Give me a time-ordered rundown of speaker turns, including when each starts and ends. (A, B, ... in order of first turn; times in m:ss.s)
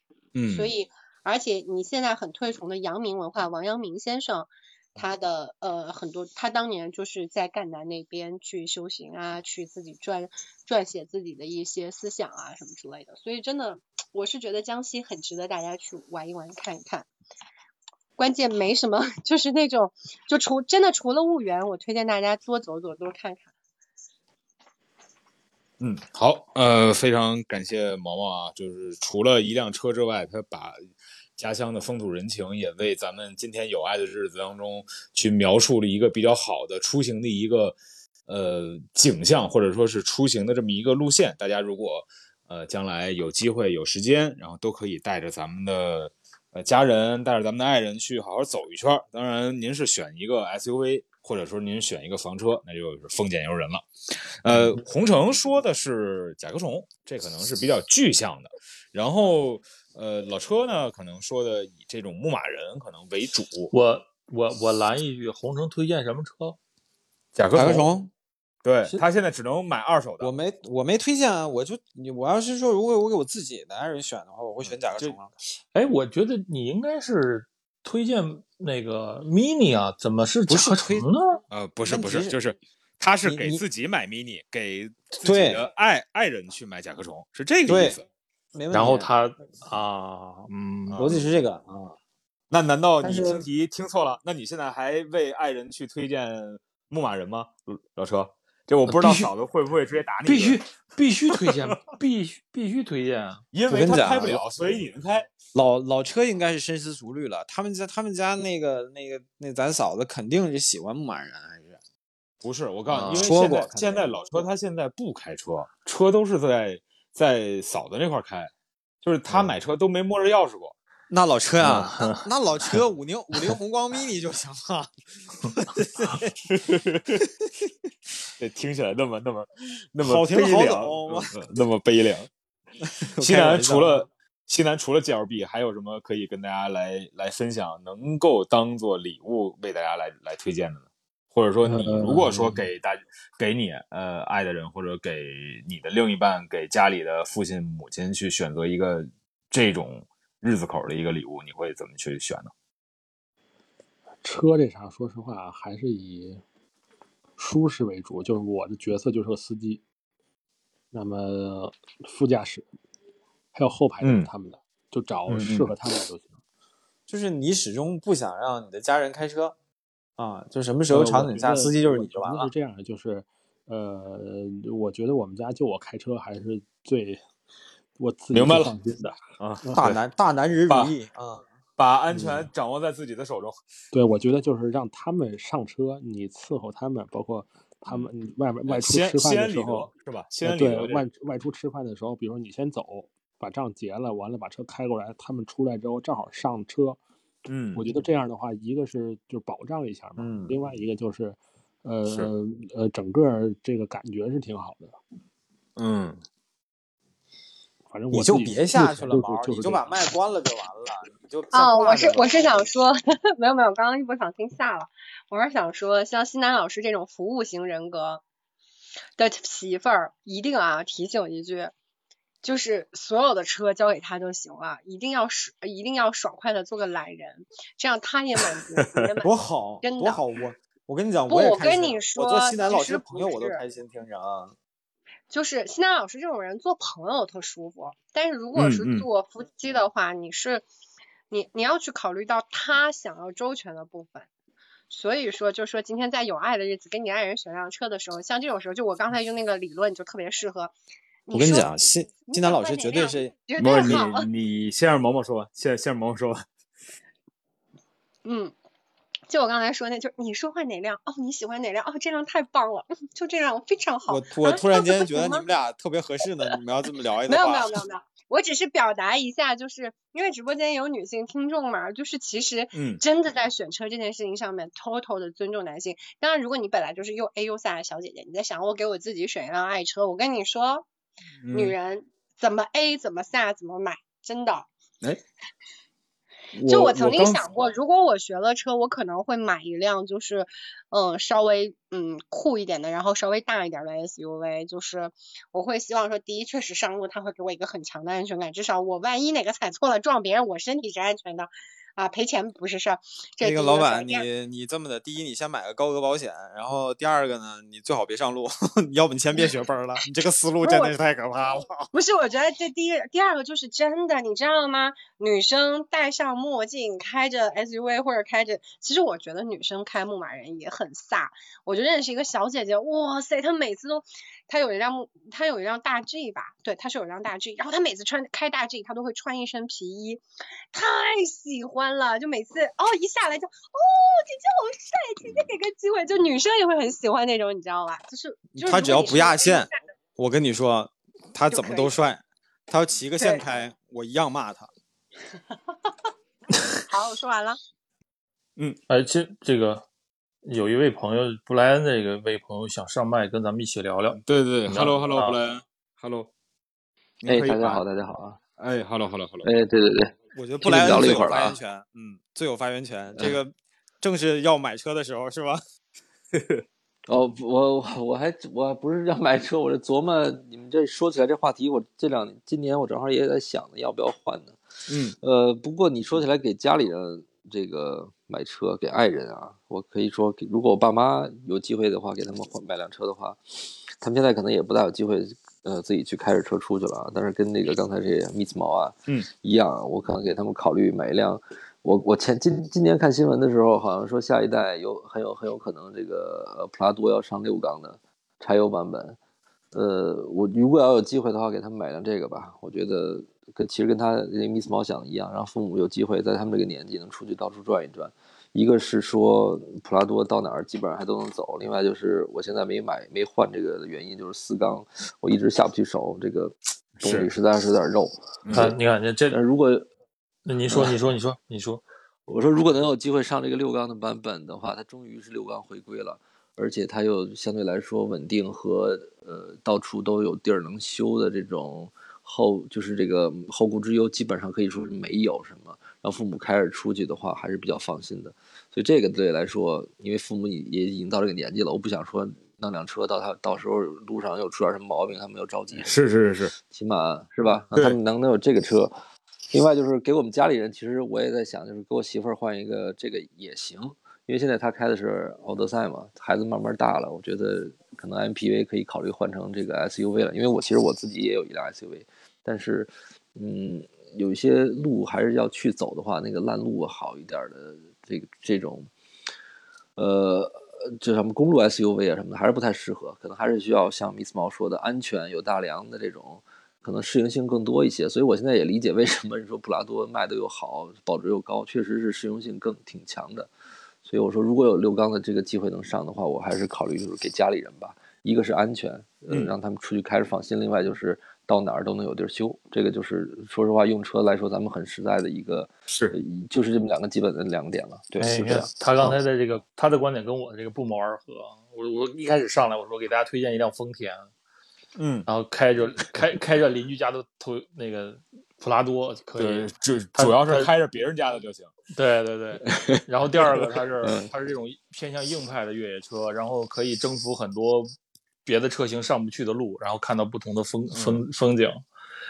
0:00.4-0:00.6 A
0:00.5-0:17.1 B
0:18.2-0:23.5 B
0:25.8-0:37.8 A
0:38.3-0:53.9 A
0:54.4-1:03.7 A
1:03.7-1:06.6 C
1:07.3-1:07.9 A
1:07.5-1:08.1 D
1:08.6-1:10.3 A
1:10.2-1:15.4 D
1:14.6-1:15.1 A
1:15.7-1:21.4 C
1:20.5-1:21.0 D
1:21.5-1:28.0 A
1:21.8-1:22.3 D
1:23.2-1:23.6 D
1:25.2-1:25.6 D
1:27.7-1:28.0 D
1:28.5-1:29.1 D
1:28.7-1:31.1 C
1:30.9-1:31.2 A
1:31.0-1:32.0 D
1:32.5-1:40.6 A
1:33.0-1:33.4 D
1:38.9-1:39.3 C
1:40.2-1:43.4 C
1:41.5-1:41.8 A
1:43.5-1:45.3 A
1:43.7-1:44.4 D
1:45.5-1:51.8 D
1:52.4-1:58.5 A
1:52.9-1:53.4 C
1:53.2-1:54.0 D
1:59.0-2:00.7 A
2:01.1-2:04.9 D
2:01.8-2:02.2 C
2:05.5-2:06.3 D
2:06.5-2:07.2 A
2:08.4-2:12.3 A
2:10.0-2:11.4 D
2:12.8-2:14.0 D
2:13.2-2:32.5 A
2:21.6-2:22.6 E
2:34.2-2:36.4 E
2:37.4-2:39.8 E
2:40.9-2:42.7 E
2:43.5-2:46.4 E
2:44.0-2:44.3 A
2:45.3-2:45.7 A
2:47.1-2:49.6 D
2:50.2-2:52.5 D
2:50.9-2:57.2 E
2:58.0-2:59.8 E
2:58.3-2:58.7 A
2:59.4-3:00.0 A
2:59.7-3:01.4 D
3:01.8-3:03.6 A
3:03.9-3:09.9 E
3:08.7-3:11.0 A
3:10.4-3:17.0 E
3:17.4-3:17.8 A
3:17.7-3:25.0 E
3:20.2-3:20.6 D
3:25.8-3:26.2 A
3:27.9-3:30.0 E
3:28.1-3:32.7 D
3:31.5-3:38.2 B
3:39.2-3:41.7 B
3:42.4-3:50.2 B
3:49.2-3:54.5 D
3:51.3-3:53.6 B
3:55.3-4:00.6 B
3:58.5-3:59.1 A
4:01.3-4:04.3 B
4:04.9-4:10.7 B
4:11.2-4:11.7 B
4:11.3-4:13.3 D
4:12.3-4:14.3 B
4:13.6-4:16.4 A
4:18.2-4:18.5 B
4:19.3-4:25.4 B
4:24.1-4:27.7 D
4:27.3-4:40.8 B
4:32.7-4:33.0 A
4:41.4-4:41.8 A
4:41.5-4:44.7 B
4:46.5-4:47.5 A
4:46.6-5:04.2 B
5:03.4-5:11.9 D
5:10.6-5:10.9 B
5:11.9-5:39.7 B
5:38.6-5:44.7 D
5:41.5-5:41.9 B
5:46.9-5:47.6 B
5:48.9-5:49.8 C
5:50.4-5:55.4 C
5:54.2-5:56.3 A
5:57.2-5:57.8 A
5:57.2-5:58.4 F
5:58.6-5:59.5 A
5:59.4-6:01.6 F
6:00.3-6:05.6 D
6:06.3-6:06.6 A
6:07.1-6:14.6 F
6:14.9-6:15.2 D
6:15.2-6:39.2 F
6:39.7-6:58.7 F
6:57.0-6:57.3 A
6:58.4-6:58.7 A
6:58.5-6:59.4 C
6:59.3-6:59.9 F
7:00.4-7:01.8 C
7:00.7-7:01.0 F
7:02.3-7:26.0 F
7:25.8-7:26.5 A
7:26.6-7:29.0 F
7:29.5-7:48.9 F
7:50.0-8:03.5 F
8:04.0-8:18.4 F
8:18.1-8:18.7 D
8:18.2-8:24.3 C
8:25.0-8:25.3 A
8:25.3-8:30.7 C
8:29.4-8:31.7 A
8:31.9-8:37.9 C
8:32.6-8:34.3 F
8:38.4-8:41.8 C
8:40.9-8:41.2 A